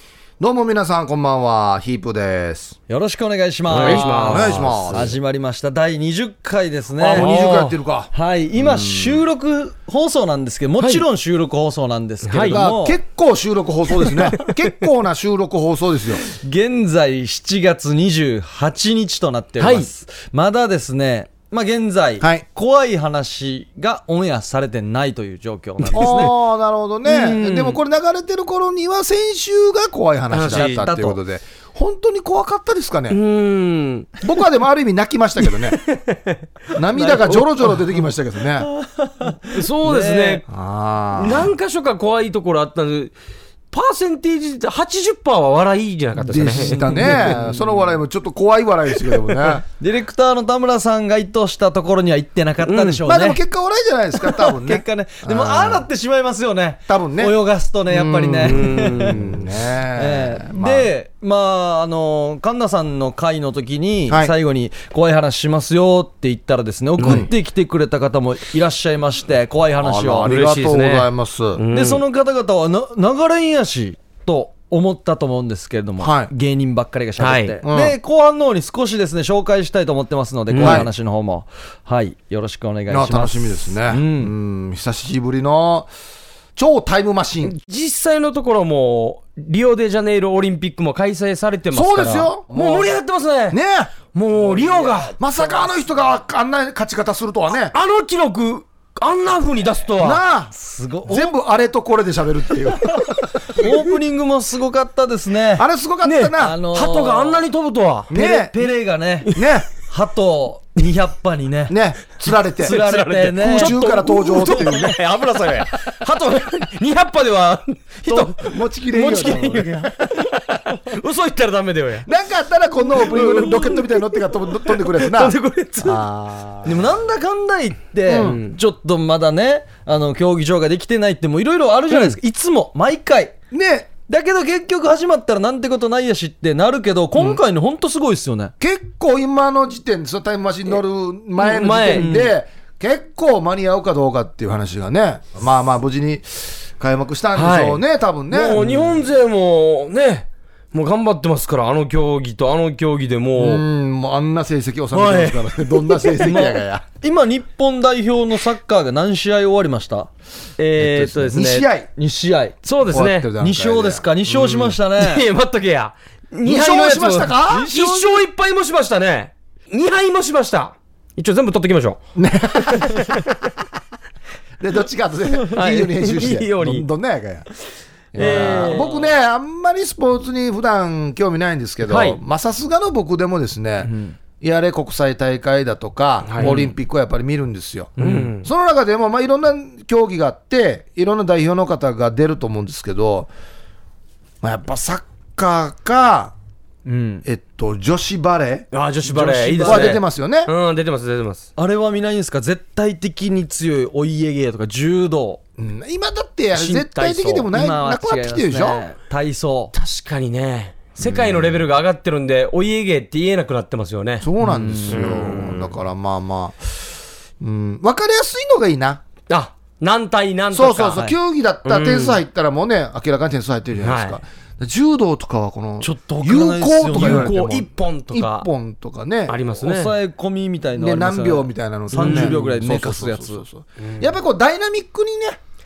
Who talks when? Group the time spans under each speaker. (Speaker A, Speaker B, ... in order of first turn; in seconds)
Speaker A: 0.4-2.8, 3.7-5.1, 7.0-9.2, 12.5-16.2, 25.9-33.2, 34.2-35.8, 36.7-38.7, 40.5-41.5, 46.2-49.6, 53.0-55.9, 56.9-57.3, 57.9-60.9, 64.1-64.3, 67.0-67.3, 69.8-71.6, 76.0-76.3, 77.6-78.0, 80.6-80.9, 82.9-85.9, 86.5-87.5, 91.7-93.0, 93.5-93.9, 95.2-97.7, 100.0-100.5, 101.0-103.1, 105.6-106.6, 108.1-108.5, 109.3-109.7, 111.7-112.8, 113.4-115.0, 118.1-120.2, 122.0-126.9, 128.1-128.4, 133.5-133.9, 138.6-148.6, 153.4-156.8, 160.8-161.9, 162.8-164.7, 166.4-168.0, 172.2-173.2, 174.6-177.5, 178.1-193.3, 194.4-196.3, 197.2-198.7, 199.6-200.5, 205.6-208.8, 211.0-211.6, 214.2-216.8, 217.4-219.0, 220.5-229.4, 230.8-235.4
Speaker B: 2.9-7.3, 8.1-13.0, 16.3-26.3, 27.0-27.8, 30.4-31.2, 38.8-40.4, 46.8-47.4, 49.8-53.4, 54.2-59.2, 59.9-70.3, 71.7-84.3, 94.5-95.7, 100.5-101.3, 103.5-105.7, 106.4-107.4, 108.1-111.8, 112.6-113.8, 126.6-133.3, 134.1-138.5, 141.9-142.3, 148.6-148.9, 156.2-160.1, 161.9-162.6, 163.4-165.2, 167.5-168.1, 178.2-179.0, 183.8-184.2, 186.4-186.7, 188.0-188.3, 196.8-197.2, 199.1-200.0, 201.6-205.4, 207.5-209.7, 214.4-215.2, 225.8-227.3, 229.6-233.4
Speaker C: 3.7-5.1, 7.1-7.8, 10.8-11.0, 12.2-12.6, 14.1-14.6, 19.6-19.9, 25.8-26.3, 30.3-30.9, 33.1-34.2, 35.6-36.4, 37.0-37.5, 39.5-40.4, 41.1-43.1, 43.7-47.4, 52.6-53.0, 58.4-59.3, 67.0-67.3, 70.2-72.0, 77.2-77.6, 80.5-80.8, 87.4-93.6, 94.1-95.1, 97.7-100.2, 106.0-108.1, 112.6-122.1, 122.9-126.0, 128.1-128.6, 131.9-132.2, 141.4-142.1, 147.3-153.6, 154.9-156.1, 160.6-161.7, 162.6-163.3, 165.0-172.0, 172.6-173.3, 175.5-176.9, 178.1-178.9, 181.8-182.2, 186.2-186.6, 188.0-188.5, 198.7-201.5, 206.5-207.5, 209.7-215.7, 219.3-221.1, 221.6-222.2, 223.8-224.2, 226.9-228.5, 229.3-229.9, 231.9-232.4, 233.8-234.1